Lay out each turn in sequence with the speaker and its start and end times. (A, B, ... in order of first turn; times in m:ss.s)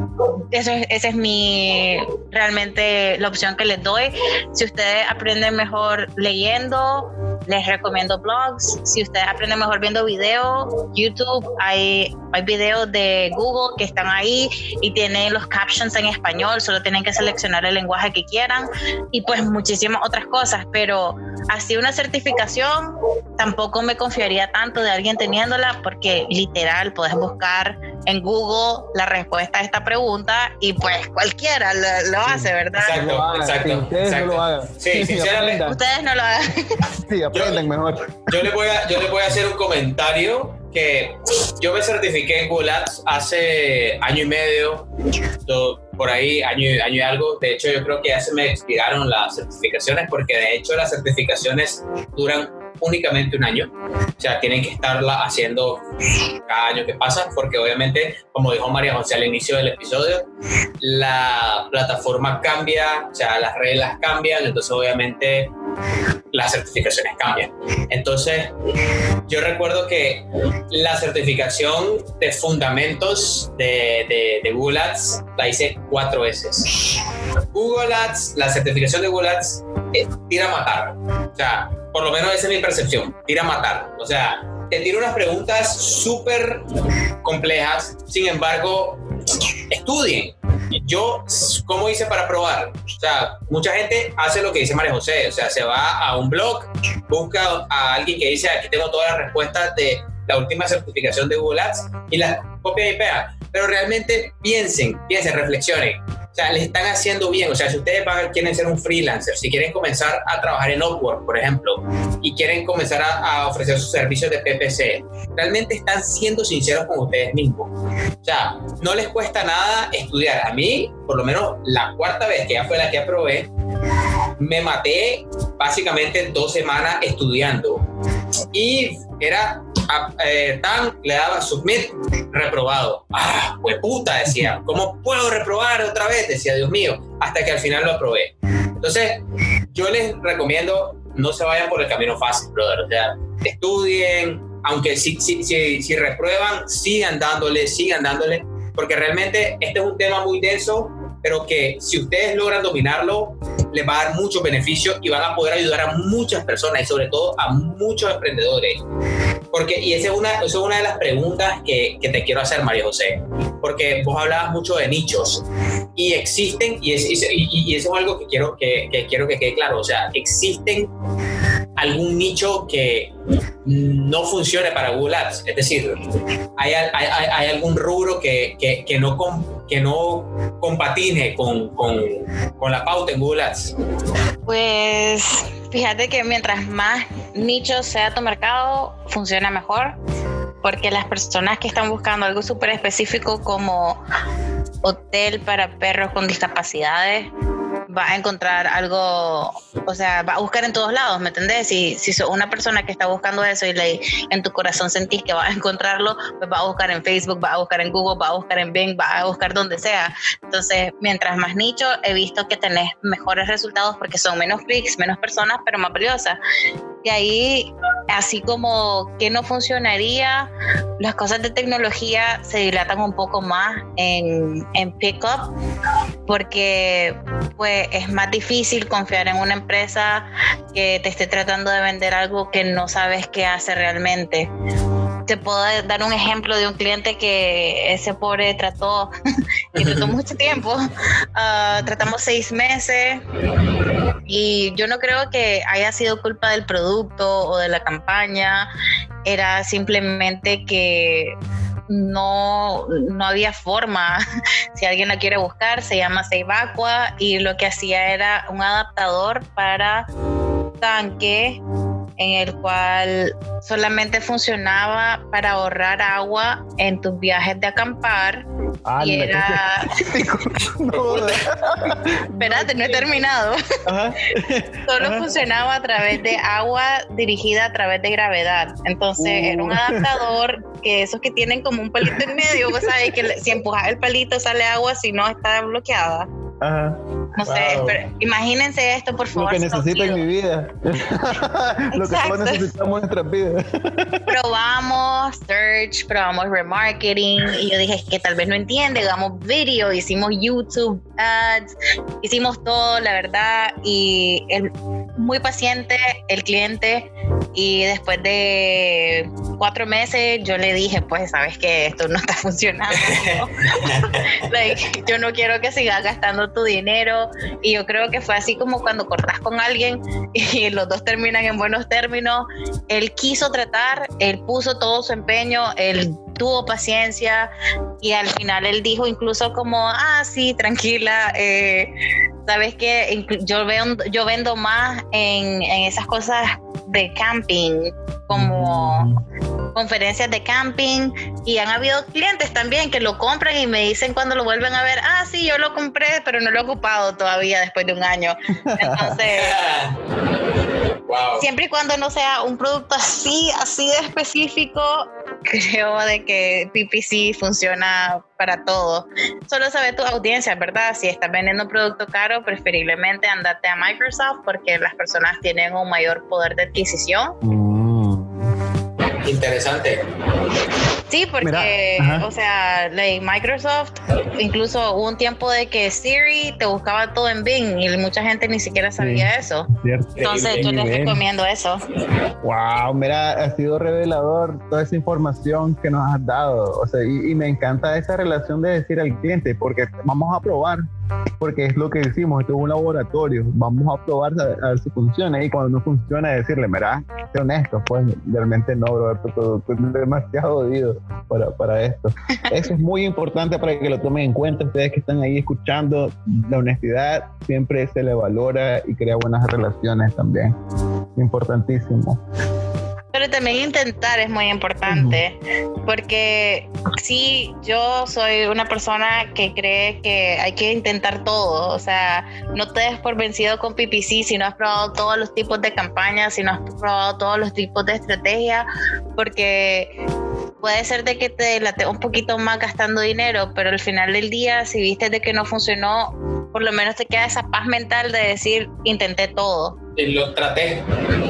0:00.5-0:33.0 A
0:32.2-0:35.8 B
0:32.8-0:35.6 C
0:35.6-0:36.8 A
0:37.0-0:38.5 B
0:37.3-0:37.6 C
0:38.3-0:44.9 C
0:45.5-0:55.8 C
0:56.5-1:00.3 C
1:00.8-1:05.5 C
1:06.3-1:08.5 C
1:09.3-1:16.8 C
1:17.5-1:26.6 C
1:27.2-1:29.0 C
1:29.7-2:03.5 C
2:04.4-2:07.8 C
2:08.5-2:19.2 C
2:19.7-2:38.8 C
2:39.5-2:45.4 C
2:46.0-2:50.9 C
2:51.8-2:53.1 C
2:53.6-2:56.0 C
2:56.6-3:03.7 C
3:04.4-3:10.0 A
3:10.6-3:14.0 A
3:14.8-3:17.3 A
3:17.9-3:36.4 A
3:37.0-3:45.5 A
3:46.3-3:54.5 A
3:55.3-3:59.1 A
3:59.7-4:00.1 C
3:59.7-4:00.8 A
4:01.3-4:03.2 A
4:04.2-4:08.7 A
4:09.2-4:11.3 A
4:11.9-4:14.2 A
4:14.7-4:20.1 A
4:20.8-4:21.6 A
4:22.2-4:28.4 A
4:28.8-4:33.0 B
4:29.0-4:30.0 A
4:30.9-4:31.4 C
4:32.4-4:33.6 A
4:33.8-4:35.3 B
4:34.9-4:46.3 A
4:39.2-4:40.1 B
4:42.1-4:43.1 B
4:46.6-4:47.0 B
4:47.4-4:50.2 A
4:47.4-4:48.0 C
4:49.4-4:54.3 B
4:51.9-4:52.7 A
4:54.3-5:01.7 A
5:02.2-5:31.9 A
5:13.1-5:14.1 C
5:32.4-5:39.1 A
5:38.3-5:39.2 B
5:39.7-5:49.5 A
5:48.6-5:49.2 B
5:49.3-5:50.0 C
5:51.1-5:51.4 C
5:51.4-6:07.4 A
6:07.4-6:08.4 B
6:09.2-6:10.0 C
6:11.1-6:19.7 A
6:11.4-6:12.3 B
6:19.0-6:21.2 B
6:20.2-6:21.1 C
6:20.2-6:21.8 A
6:22.4-6:30.8 B
6:31.4-6:50.5 B
6:51.2-6:52.2 B
6:53.1-7:09.9 A
6:54.9-6:55.2 B
7:10.6-7:19.8 A
7:20.0-7:20.8 C